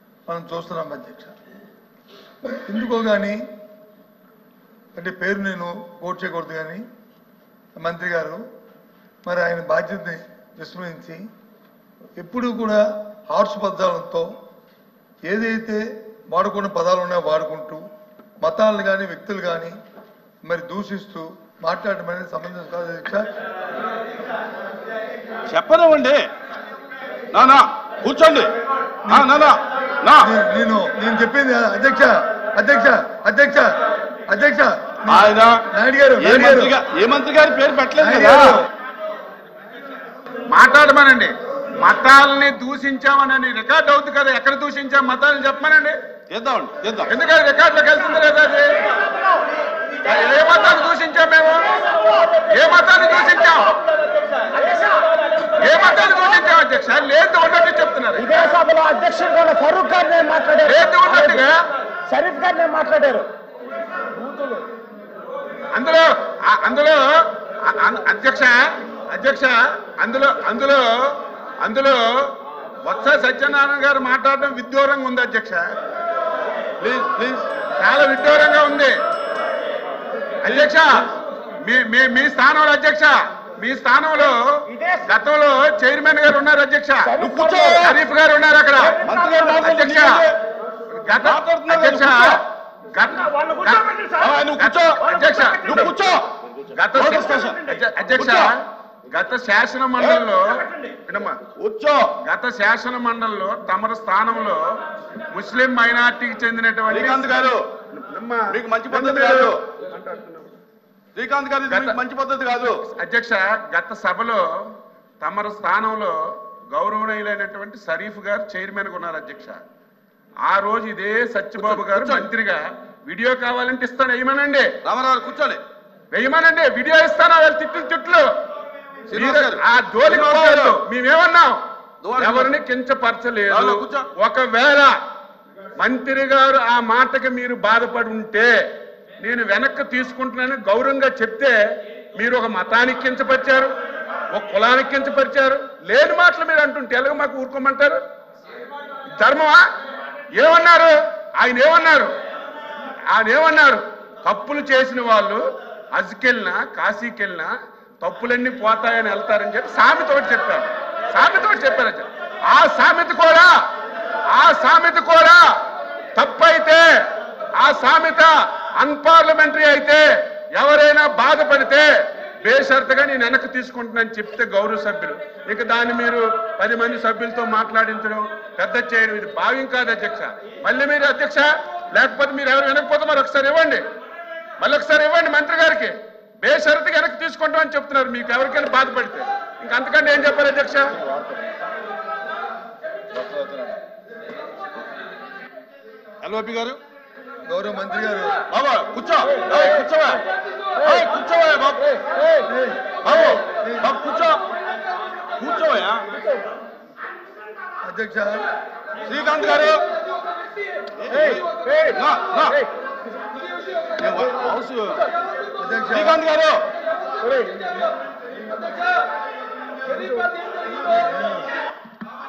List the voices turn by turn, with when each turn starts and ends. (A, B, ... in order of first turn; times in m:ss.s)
0:00.3-0:01.3 A
0:02.5-0:03.4 A
0:05.0-0:06.8 A
0:07.8-0:08.4 A
0:09.2-0:11.2 A
0:12.2-0:14.3 A
0:15.2-0:17.8 A
0:18.4-0:19.7 A
0:20.4-0:23.3 A
0:25.5-0:26.2 B
0:27.3-0:28.5 B
0:29.1-0:29.4 A
0:29.1-0:30.3 B
0:30.2-0:36.7 A
0:35.1-0:35.6 B
0:36.2-0:38.6 B
0:38.0-0:38.6 A
0:40.5-0:46.0 C
0:46.3-0:47.1 B
0:47.1-0:48.9 C
0:50.0-0:51.8 C
0:52.5-0:53.8 C
0:55.5-0:58.6 C
0:58.4-1:01.3 D
1:00.6-1:01.6 C
1:02.1-1:03.2 D
1:05.7-1:08.6 C
1:09.1-1:12.2 C
1:12.8-1:15.6 C
1:16.8-1:17.5 B
1:17.8-1:18.9 C
1:20.4-1:20.8 B
1:20.4-1:20.9 C
1:21.6-1:24.4 C
1:25.0-1:27.2 C
1:27.1-1:27.9 B
1:27.2-1:28.0 D
1:27.8-1:29.0 C
1:29.0-1:30.4 B
1:29.6-1:30.2 C
1:31.0-1:32.4 C
1:31.2-1:32.4 B
1:32.9-1:36.0 C
1:34.2-1:35.0 B
1:35.6-1:36.2 B
1:36.8-1:38.5 C
1:36.9-1:38.5 B
1:39.1-1:41.3 C
1:40.0-1:40.2 B
1:41.1-1:42.1 B
1:42.2-1:44.6 C
1:45.3-1:47.4 C
1:46.9-1:47.7 B
1:47.9-1:50.5 C
1:48.5-1:49.6 B
1:51.1-1:52.8 B
1:51.7-1:52.0 C
1:52.9-1:54.4 C
1:55.2-1:56.1 C
1:56.7-1:59.6 C
2:00.4-2:04.7 C
2:01.5-2:02.3 B
2:04.8-2:05.6 B
2:06.1-2:08.2 C
2:09.1-2:10.8 B
2:09.1-2:11.6 C
2:12.0-2:12.6 B
2:12.2-2:14.9 C
2:13.5-2:14.1 B
2:15.8-2:18.5 C
2:19.2-2:21.5 C
2:22.2-2:23.7 C
2:24.3-2:28.0 C
2:29.2-2:29.6 C
2:30.4-2:32.1 C
2:33.1-2:35.4 C
2:35.9-2:37.5 C
2:38.0-2:43.5 C
2:44.3-2:45.4 C
2:46.2-2:46.8 C
2:47.6-2:50.0 C
2:50.5-2:51.9 C
2:52.4-3:03.8 C
3:04.6-3:10.9 C
3:13.2-3:13.7 B
3:16.2-3:16.8 B
3:17.5-3:18.4 A
3:18.5-3:22.3 B
3:22.4-3:23.9 A
3:23.0-3:24.4 B
3:25.4-3:26.0 B
3:27.8-3:28.4 A
3:29.0-3:29.8 B
3:31.0-3:32.6 B
3:34.0-3:35.1 B
3:35.6-3:36.2 A
3:35.9-3:36.6 B
3:40.9-3:41.5 A